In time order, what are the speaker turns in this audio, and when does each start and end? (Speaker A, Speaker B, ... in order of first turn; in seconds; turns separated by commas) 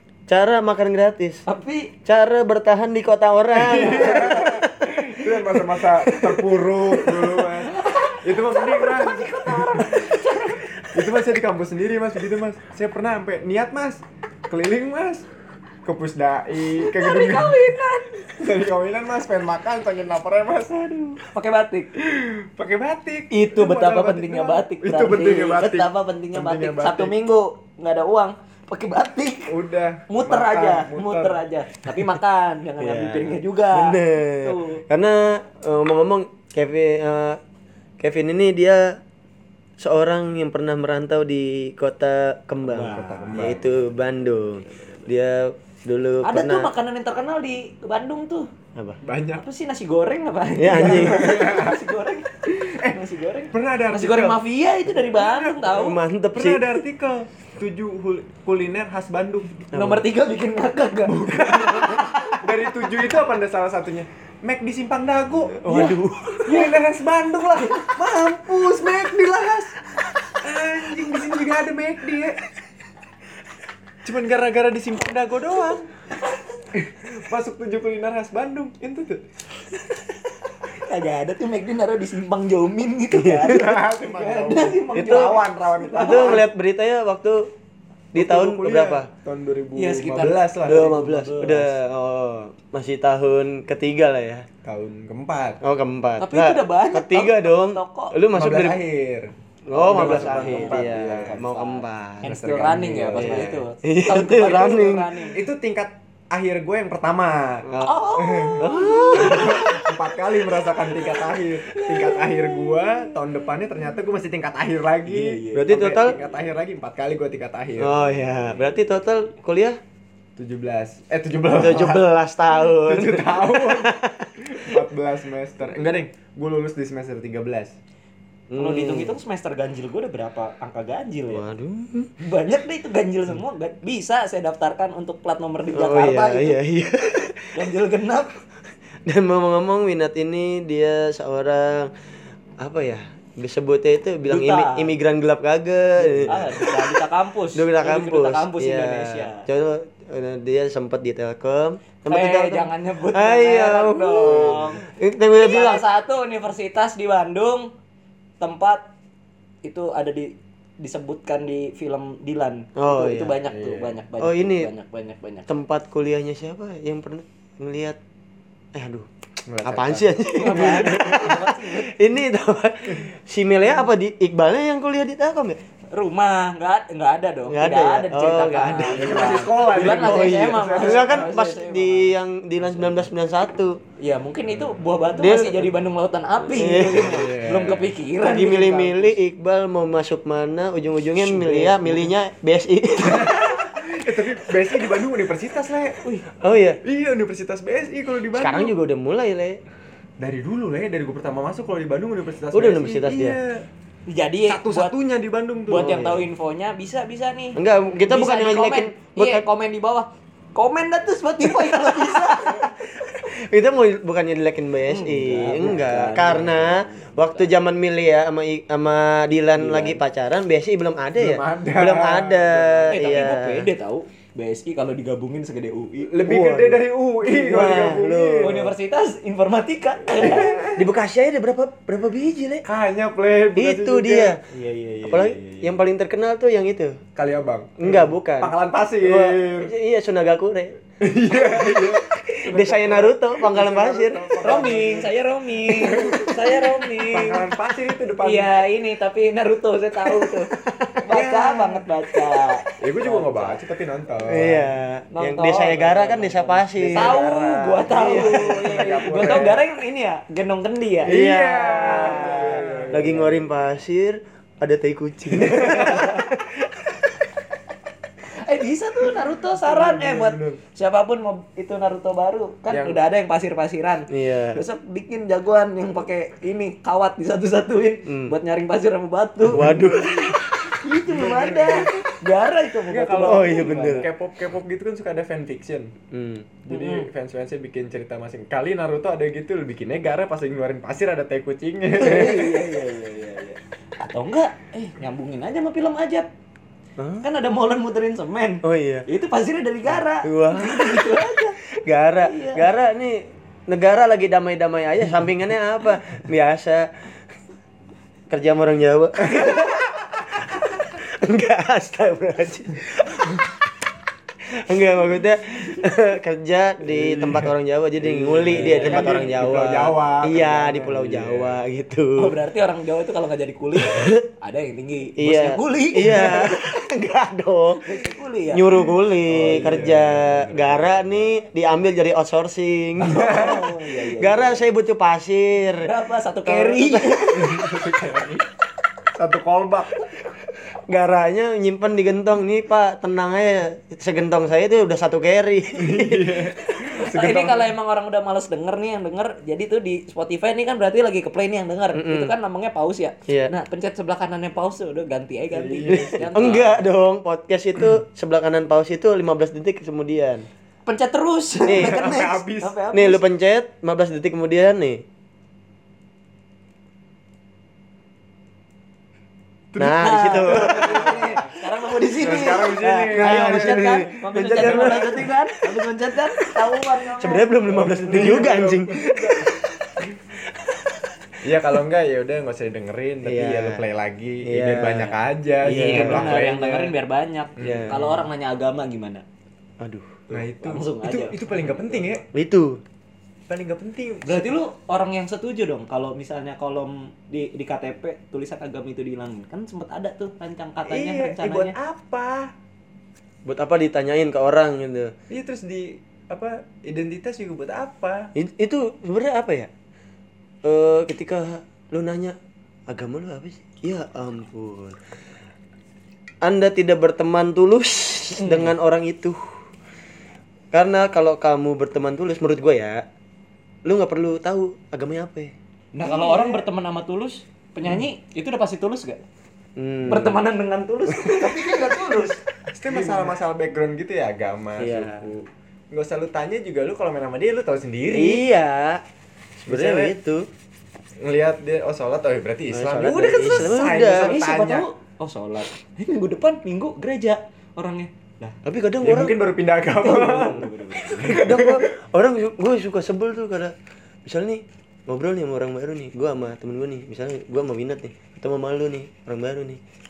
Speaker A: 0.3-1.4, Speaker B: 1.5-1.9, Speaker A: 2.0-6.5, Speaker C: 3.5-10.0, Speaker A: 7.0-7.5, Speaker B: 7.7-10.7, Speaker C: 10.9-15.3, Speaker C: 15.8-17.6, Speaker B: 16.8-18.3, Speaker C: 18.4-21.2, Speaker B: 21.3-21.9, Speaker C: 22.0-27.1, Speaker B: 23.3-29.5, Speaker C: 29.5-31.4, Speaker B: 30.1-34.8, Speaker A: 32.8-37.4, Speaker A: 38.0-39.0, Speaker A: 39.8-46.7, Speaker B: 42.6-43.6, Speaker C: 43.3-43.6, Speaker B: 46.2-48.5, Speaker A: 48.8-49.0, Speaker C: 49.0-49.5, Speaker B: 49.4-56.0, Speaker A: 50.6-51.4, Speaker C: 50.7-51.8, Speaker C: 53.5-54.4, Speaker C: 55.1-55.7, Speaker A: 55.6-56.8, Speaker C: 56.3-59.7, Speaker A: 59.7-60.1, Speaker B: 59.7-62.4, Speaker C: 61.1-65.7, Speaker A: 61.8-62.4, Speaker A: 65.6-66.7, Speaker B: 65.7-66.0, Speaker C: 66.5-69.8, Speaker C: 70.4-72.4, Speaker C: 74.0-75.9, Speaker C: 76.7-79.2, Speaker B: 80.6-86.5, Speaker A: 83.2-83.8, Speaker C: 83.4-86.4, Speaker A: 85.0-85.4, Speaker A: 86.0-87.4, Speaker A: 88.1-89.1, Speaker C: 88.2-90.9, Speaker B: 89.8-91.7, Speaker A: 90.6-94.5, Speaker C: 94.6-95.6, Speaker A: 95.6-98.8, Speaker B: 96.2-98.2, Speaker C: 98.3-101.4, Speaker A: 99.7-102.3, Speaker B: 99.8-105.4, Speaker C: 102.2-103.6, Speaker A: 103.2-105.3, Speaker C: 105.4-118.1, Speaker A: 107.7-109.9, Speaker B: 107.8-109.6, Speaker A: 111.9-112.4, Speaker B: 115.0-116.4, Speaker A: 115.5-116.2, Speaker A: 117.8-119.8, Speaker C: 120.4-122.0, Speaker A: 121.5-124.8, Speaker C: 122.7-127.7, Speaker A: 128.5-129.1, Speaker B: 128.6-131.5, Speaker A: 131.3-132.1, Speaker B: 132.2-136.6, Speaker A: 135.7-137.6, Speaker B: 137.6-138.3, Speaker A: 139.1-141.9, Speaker A: 142.6-146.9, Speaker B: 144.2-144.9, Speaker B: 146.1-149.4, Speaker A: 147.6-155.8, Speaker B: 152.1-154.8, Speaker C: 154.3-154.6, Speaker B: 155.4-157.7, Speaker B: 158.4-158.8, Speaker B: 159.6-165.5, Speaker A: 162.8-163.4, Speaker C: 163.5-163.9, Speaker A: 164.2-164.7, Speaker A: 165.5-168.0, Speaker A: 168.8-169.1, Speaker C: 169.5-171.4, Speaker A: 169.6-175.6, Speaker B: 170.4-171.9, Speaker B: 175.9-182.2, Speaker A: 177.5-183.8, Speaker C: 178.6-181.3, Speaker B: 184.0-189.2, Speaker A: 185.2-185.7, Speaker A: 186.5-193.7, Speaker C: 186.9-187.9, Speaker B: 191.2-192.1, Speaker C: 193.0-196.1, Speaker A: 196.3-196.8, Speaker C: 196.8-198.7, Speaker A: 198.4-199.6, Speaker C: 200.2-203.6, Speaker A: 202.5-203.4, Speaker B: 204.1-204.9, Speaker C: 204.5-206.0, Speaker B: 205.7-207.6, Speaker A: 205.7-206.3, Speaker A: 207.6-209.4, Speaker B: 208.1-212.7, Speaker A: 211.4-223.7, Speaker B: 214.9-217.5, Speaker B: 219.6-220.0, Speaker C: 221.2-223.3, Speaker B: 222.9-226.2, Speaker C: 226.1-228.6, Speaker A: 226.2-228.7, Speaker B: 228.4-230.6, Speaker C: 230.2-230.9, Speaker A: 230.2-232.6, Speaker C: 232.7-234.4, Speaker A: 233.6-234.4, Speaker B: 234.5-235.6, Speaker A: 235.1-237.0, Speaker C: 237.2-239.7, Speaker A: 237.8-240.8, Speaker C: 241.0-245.1, Speaker A: 241.3-244.4, Speaker B: 244.4-247.4, Speaker C: 245.6-248.5, Speaker B: 248.2-250.5, Speaker A: 250.6-251.0, Speaker B: 251.1-253.6, Speaker C: 251.1-251.8, Speaker C: 252.8-254.8, Speaker A: 254.3-257.2, Speaker B: 255.1-261.1, Speaker C: 256.7-259.6, Speaker A: 257.9-259.3, Speaker C: 261.1-263.5, Speaker A: 261.1-267.3, Speaker B: 262.6-262.9, Speaker C: 265.4-266.2, Speaker B: 268.3-279.8, Speaker C: 269.5-270.6, Speaker C: 272.7-273.0, Speaker A: 274.1-274.6, Speaker A: 278.1-278.4, Speaker A: 279.5-280.8, Speaker B: 280.8-284.1, Speaker C: 281.1-281.9, Speaker C: 282.9-285.9, Speaker A: 283.2-284.1, Speaker A: 286.1-286.5, Speaker C: 286.7-292.6, Speaker B: 286.7-287.1, Speaker B: 292.0-296.3, Speaker A: 297.0-297.3, Speaker B: 297.2-301.6, Speaker A: 298.6-299.0, Speaker A: 300.2-306.9, Speaker B: 302.2-302.6, Speaker A: 308.3-309.6, Speaker B: 309.3-309.6, Speaker A: 310.8-313.6, Speaker A: 314.6-322.3, Speaker C: 316.9-321.6, Speaker B: 318.5-319.4, Speaker B: 322.2-326.6, Speaker A: 323.8-324.2, Speaker A: 325.2-335.9, Speaker B: 327.9-328.9, Speaker C: 329.3-331.3, Speaker C: 333.0-333.6, Speaker B: 333.1-334.6, Speaker B: 335.8-337.3, Speaker A: 336.4-337.8, Speaker C: 337.3-338.5, Speaker C: 339.1-340.1, Speaker A: 340.7-346.9, Speaker C: 345.8-347.7, Speaker B: 346.9-356.8, Speaker A: 351.9-352.3, Speaker A: 353.3-353.5, Speaker C: 355.5-356.3, Speaker A: 355.9-360.5, Speaker B: 360.9-363.2, Speaker A: 361.7-362.3, Speaker C: 361.7-362.8, Speaker A: 362.9-365.0, Speaker C: 369.7-371.4, Speaker A: 369.8-371.3, Speaker B: 370.0-377.9, Speaker C: 372.2-375.1, Speaker A: 372.2-376.1, Speaker A: 377.2-381.4, Speaker C: 377.7-379.5, Speaker C: 381.4-386.9, Speaker A: 383.2-383.8, Speaker A: 384.4-386.4, Speaker B: 385.6-389.2, Speaker A: 387.6-388.0, Speaker C: 387.6-388.2, Speaker A: 389.8-390.2, Speaker C: 390.3-392.2, Speaker B: 390.4-392.3, Speaker A: 392.3-392.8, Speaker C: 393.5-394.6, Speaker B: 394.2-401.7, Speaker C: 400.9-402.5, Speaker A: 403.5-405.1, Speaker C: 405.3-408.3, Speaker A: 408.4-409.7, Speaker A: 410.6-412.4, Speaker A: 412.9-415.0, Speaker A: 416.4-419.6, Speaker B: 418.4-418.7, Speaker A: 420.7-423.0, Speaker A: 423.9-425.5, Speaker B: 426.0-429.2, Speaker A: 429.8-430.4, Speaker B: 430.1-432.4, Speaker A: 431.1-431.9, Speaker C: 432.7-438.5, Speaker A: 434.8-435.2, Speaker A: 438.1-439.0, Speaker A: 439.6-440.5, Speaker C: 439.7-440.1, Speaker C: 441.2-444.9, Speaker A: 442.7-444.4, Speaker B: 443.4-448.6, Speaker A: 448.6-449.4, Speaker C: 449.0-451.8, Speaker B: 450.0-451.5, Speaker A: 451.3-453.7, Speaker A: 454.2-459.8